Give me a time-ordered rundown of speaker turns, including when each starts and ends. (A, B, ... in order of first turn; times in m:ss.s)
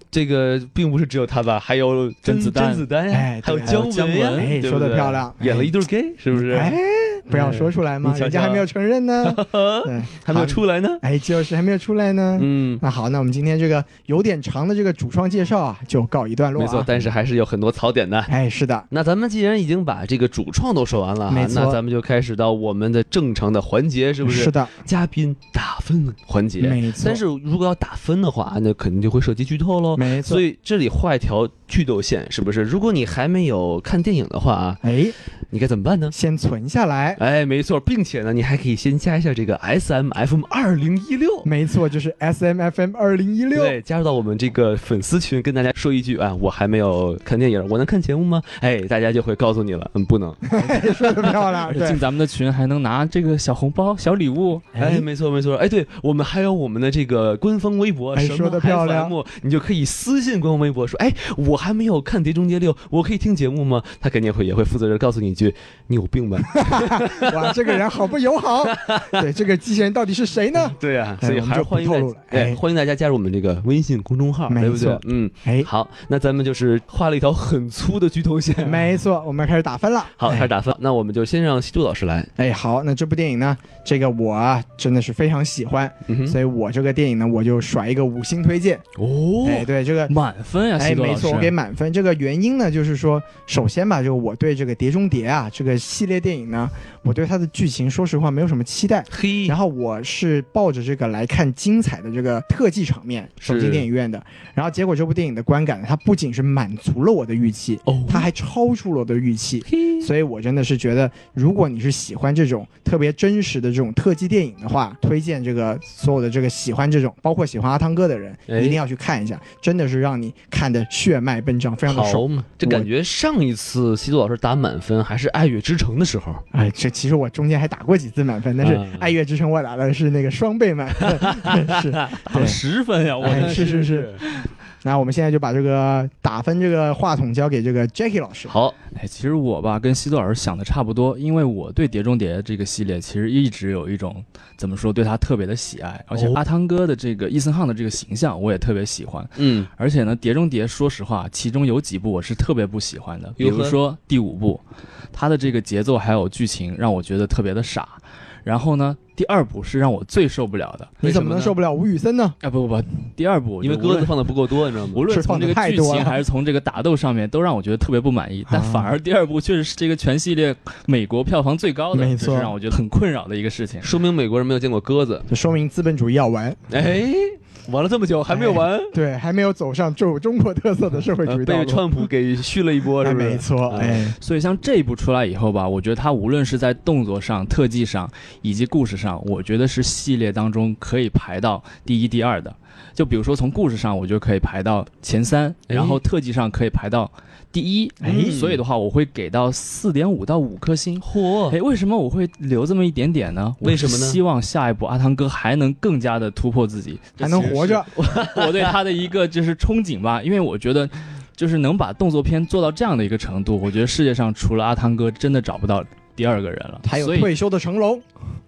0:00.1-0:06.8 A
0:02.2-0:02.8 B
0:03.1-0:05.8 C
0:03.6-0:04.5 B
0:06.3-0:16.9 C
0:07.3-0:08.7 A
0:09.2-0:11.0 A
0:12.4-0:12.8 A
0:16.6-0:18.3 A
0:18.3-0:18.9 C
0:18.9-0:34.8 A
0:21.3-0:21.8 C
0:24.2-0:24.7 C
0:26.6-0:27.2 C
0:29.9-0:30.4 C
0:34.8-0:35.2 C
0:35.5-0:36.1 A
0:36.1-0:37.2 C
0:37.2-0:41.5 A
0:41.4-0:43.8 C
0:43.5-0:50.5 A
0:50.5-0:52.0 C
0:50.6-0:54.9 B
0:54.8-1:07.8 A
0:58.1-0:59.2 C
1:06.5-1:12.6 C
1:08.6-1:09.2 A
1:10.7-1:18.9 A
1:14.5-1:15.7 C
1:18.6-1:20.5 C
1:20.2-1:22.3 A
1:22.4-1:28.8 C
1:26.1-1:26.4 A
1:29.0-1:29.7 A
1:29.4-1:30.1 C
1:30.1-1:31.5 B
1:30.8-2:02.9 C
1:39.1-1:39.6 A
1:43.4-1:43.8 A
1:47.8-1:48.3 A
1:49.7-1:50.1 A
1:58.5-1:58.8 A
2:01.9-2:06.4 A
2:06.5-2:12.6 C
2:08.6-2:09.1 A
2:11.0-2:12.2 A
2:12.2-2:14.4 B
2:13.2-2:14.2 A
2:13.2-2:14.1 C
2:14.8-2:18.5 C
2:18.5-2:18.7 A
2:18.9-2:34.6 B
2:26.1-2:26.4 A
2:29.4-2:29.7 A
2:33.4-2:33.8 A
2:35.1-2:41.6 B
2:41.0-2:42.4 C
2:42.4-2:44.3 B
2:43.6-2:45.0 A
2:44.9-2:53.9 B
2:45.1-2:46.2 C
2:48.5-2:48.9 C
2:51.9-2:52.5 C
2:53.8-2:55.3 A
2:55.3-2:56.6 C
2:56.7-2:58.9 A
2:58.3-3:02.1 C
3:01.2-3:04.1 A
3:03.0-3:04.2 C
3:04.2-3:37.3 B
3:15.7-3:16.0 A
3:18.0-3:18.4 C
3:18.0-3:18.6 A
3:21.0-3:21.6 A
3:23.6-3:24.2 A
3:27.2-3:27.9 C
3:27.5-3:28.7 A
3:36.8-3:38.0 C